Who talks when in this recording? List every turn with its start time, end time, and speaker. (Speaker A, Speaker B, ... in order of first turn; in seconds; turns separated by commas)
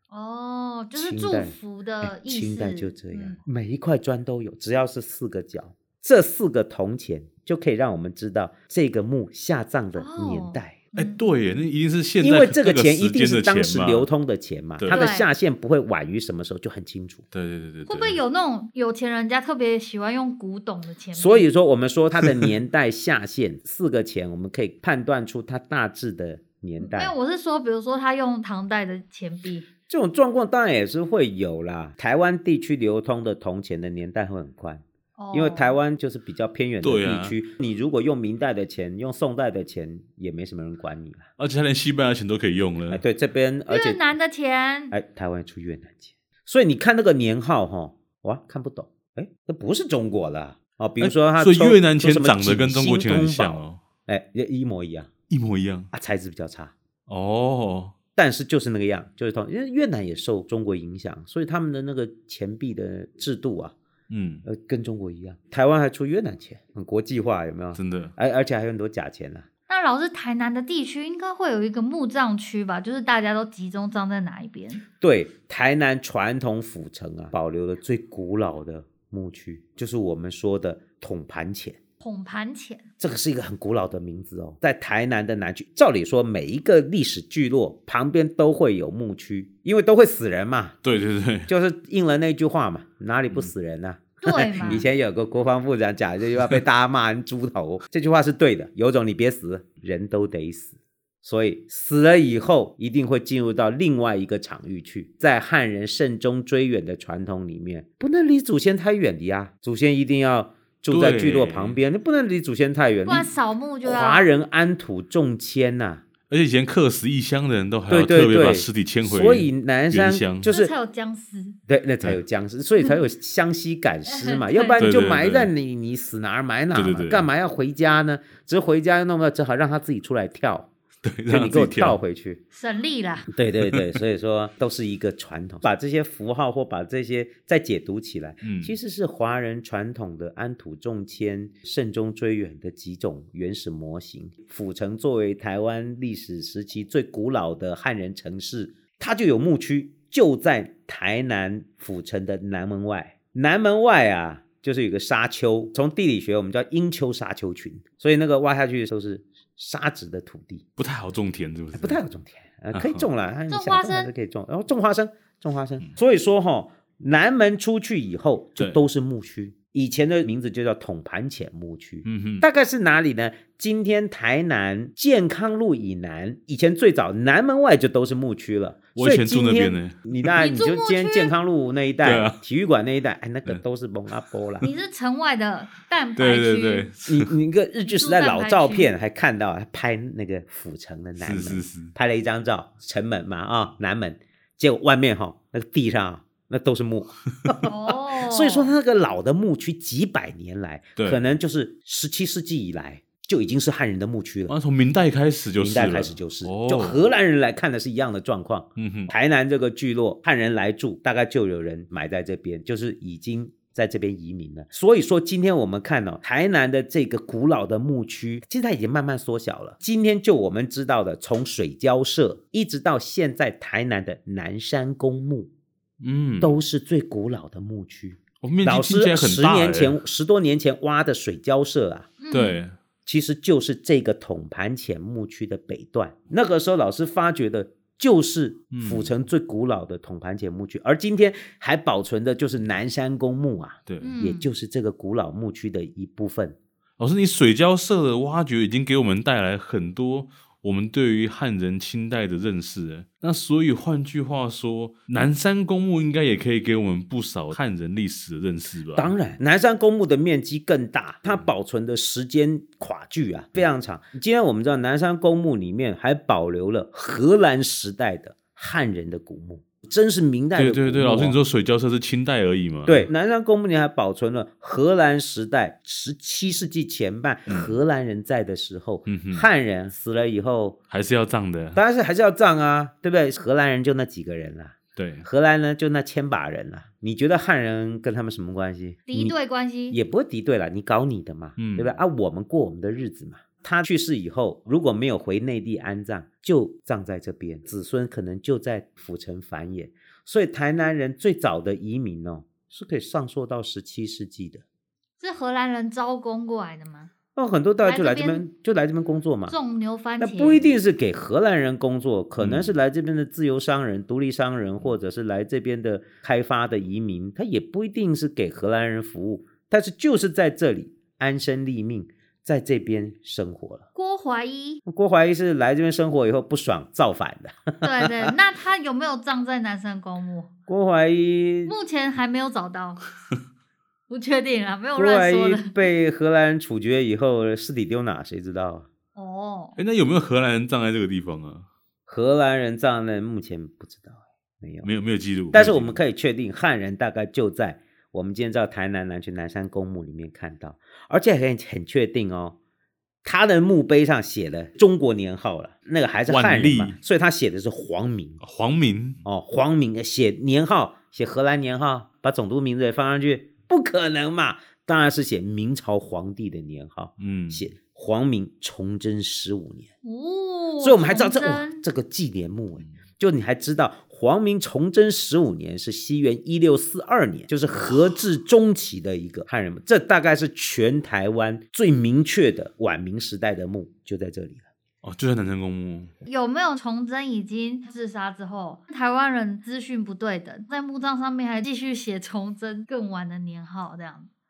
Speaker A: 0.1-3.4, Speaker B: 0.9-10.8, Speaker A: 10.0-11.2, Speaker C: 10.9-14.1, Speaker B: 12.2-17.2, Speaker C: 14.8-15.1, Speaker A: 14.9-15.3, Speaker C: 17.3-18.2, Speaker A: 17.9-21.5, Speaker B: 21.2-27.1, Speaker A: 26.8-29.7, Speaker B: 29.9-41.3, Speaker A: 35.2-35.8, Speaker C: 36.8-37.4, Speaker C: 41.4-43.0, Speaker B: 42.9-44.0, Speaker A: 43.7-45.0, Speaker B: 44.9-55.1, Speaker C: 51.0-53.8, Speaker C: 55.3-55.9, Speaker B: 55.9-56.7, Speaker C: 57.1-58.0, Speaker B: 58.2-63.8, Speaker C: 64.1-64.4, Speaker B: 64.5-69.5, Speaker C: 67.8-68.1, Speaker A: 69.7-74.8, Speaker B: 75.0-81.8, Speaker A: 82.0-82.9, Speaker B: 83.0-90.8, Speaker C: 90.8-91.5, Speaker B: 91.5-113.3, Speaker A: 94.2-94.8, Speaker C: 110.9-111.8, Speaker A: 113.1-114.3, Speaker B: 113.8-116.0, Speaker C: 116.3-120.5, Speaker B: 117.9-120.7, Speaker A: 120.5-121.6, Speaker B: 121.7-130.7, Speaker A: 124.1-124.8, Speaker C: 124.8-125.5, Speaker C: 126.7-127.3, Speaker C: 131.0-132.0, Speaker B: 131.3-132.4, Speaker A: 132.5-133.3, Speaker B: 133.3-160.7, Speaker C: 138.4-138.8, Speaker C: 160.8-162.0, Speaker B: 161.8-184.7, Speaker C: 162.7-163.1, Speaker A: 163.5-164.1, Speaker C: 172.1-172.4, Speaker C: 179.0-180.3, Speaker A: 180.4-181.3, Speaker C: 182.0-182.4, Speaker A: 184.6-186.9, Speaker C: 186.2-187.3, Speaker B: 187.1-204.5, Speaker A: 187.8-188.9, Speaker C: 191.2-191.9, Speaker A: 197.6-198.7, Speaker C: 204.5-207.1, Speaker B: 205.6-225.5, Speaker C: 208.8-209.1, Speaker C: 226.0-226.6, Speaker B: 226.4-232.1, Speaker C: 228.4-230.0, Speaker A: 232.2-232.6, Speaker C: 232.3-232.8, Speaker B: 233.1-246.6, Speaker C: 238.7-239.1, Speaker C: 243.9-244.2, Speaker A: 244.0-244.5, Speaker C: 247.0-259.1, Speaker B: 258.9-271.4, Speaker C: 270.6-273.1, Speaker B: 272.9-280.8, Speaker C: 277.5-277.8, Speaker C: 279.1-279.5, Speaker C: 280.9-281.8, Speaker B: 281.8-289.4, Speaker C: 285.0-285.3, Speaker A: 289.1-290.0, Speaker B: 289.9-304.6, Speaker C: 291.6-292.0, Speaker A: 305.2-307.1, Speaker B: 307.4-309.6, Speaker A: 307.8-308.4, Speaker A: 309.5-310.6, Speaker B: 310.2-323.9, Speaker C: 312.4-312.7, Speaker A: 323.9-324.8, Speaker B: 324.9-328.3, Speaker A: 327.8-330.5, Speaker B: 330.7-331.7, Speaker A: 331.6-333.0, Speaker A: 334.1-335.8, Speaker B: 335.0-338.9, Speaker A: 339.1-339.8, Speaker C: 339.8-341.7, Speaker B: 342.1-344.9, Speaker C: 344.8-346.0, Speaker B: 345.5-352.6, Speaker B: 353.2-358.4, Speaker C: 356.3-357.0, Speaker C: 358.4-359.2, Speaker B: 359.2-369.9, Speaker C: 367.2-367.7, Speaker A: 370.0-371.8, Speaker B: 370.8-384.7, Speaker C: 385.0-386.1, Speaker A: 386.3-394.3